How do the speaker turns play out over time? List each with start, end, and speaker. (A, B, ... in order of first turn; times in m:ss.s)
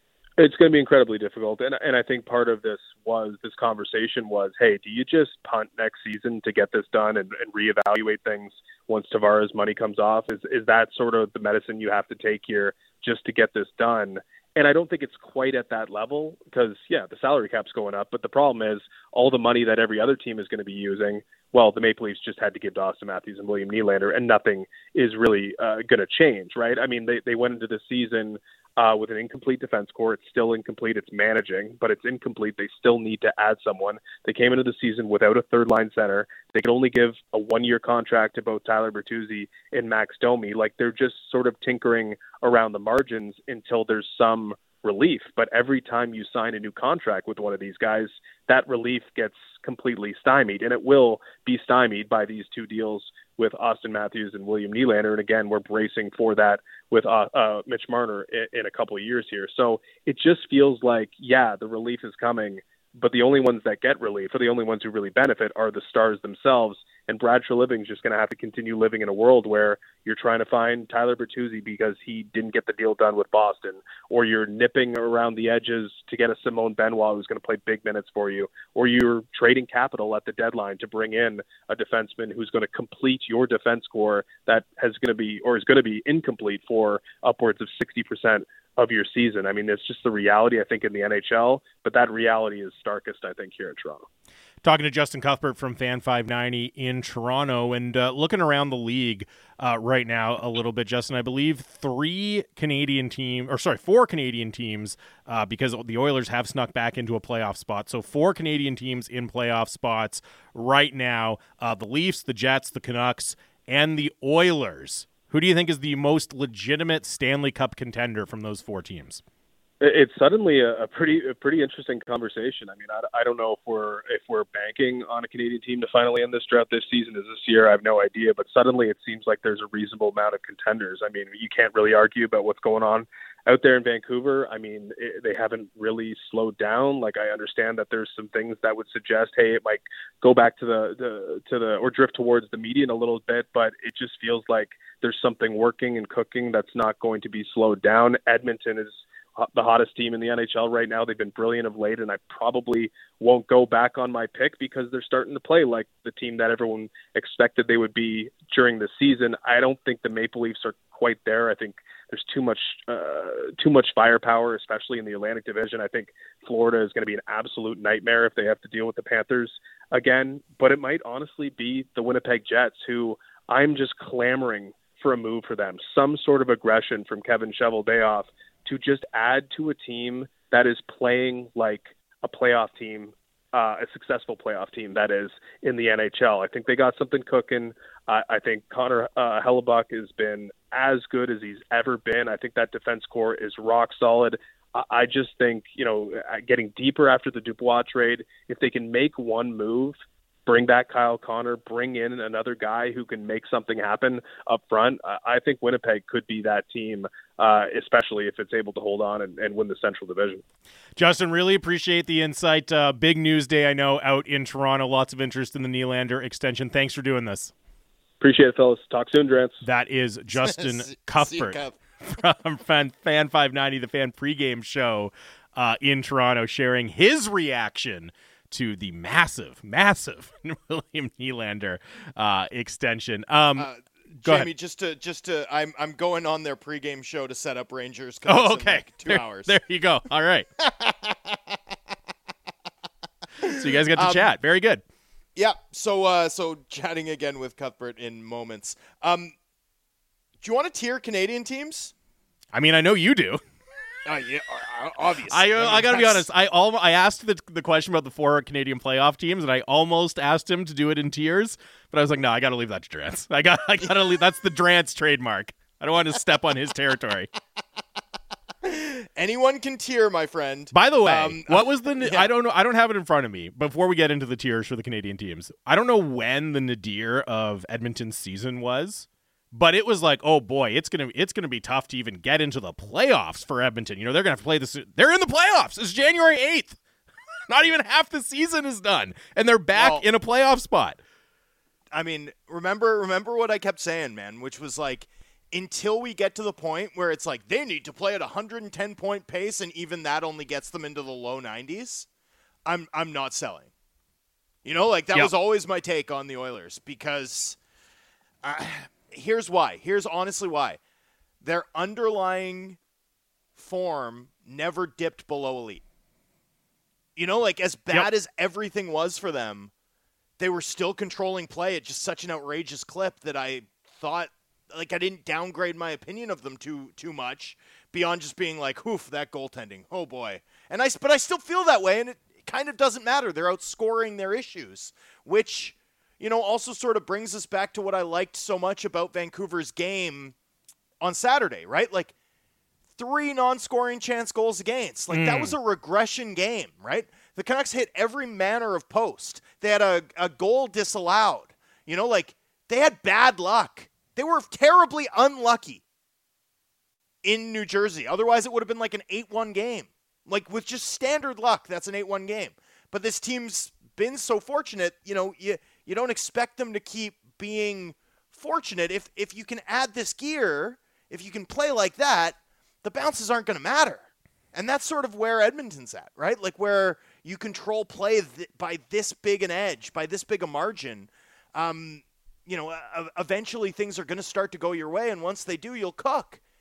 0:00.4-1:34.1 A
1:34.6-1:59.2 B
1:59.8-3:30.4 A
3:31.0-3:37.5 B
3:38.2-3:39.6 A
3:39.6-3:53.7 B
3:40.4-3:41.8 C
3:53.6-3:59.5 C
3:54.2-3:54.5 B
3:58.2-4:00.5 B
4:00.6-4:01.6 C
4:03.4-4:04.3 C
4:03.4-4:04.8 B
4:05.3-4:09.3 C
4:10.4-4:11.9 C
4:12.5-4:13.4 B
4:14.0-4:16.3 C
4:15.3-4:27.3 B
4:28.6-4:32.3 C
4:30.7-4:46.8 B
4:47.5-4:51.0 B
4:49.7-4:50.0 C
4:51.9-5:02.1 C
5:02.6-5:03.7 C
5:04.6-5:07.6 C
5:08.4-5:10.8 C
5:11.4-5:12.8 C
5:13.5-5:15.8 C
5:17.2-5:19.7 C
5:20.4-5:40.3 C
5:41.0-5:42.1 C
5:43.0-5:55.8 C
5:45.1-5:45.5 B
5:57.2-6:26.4 C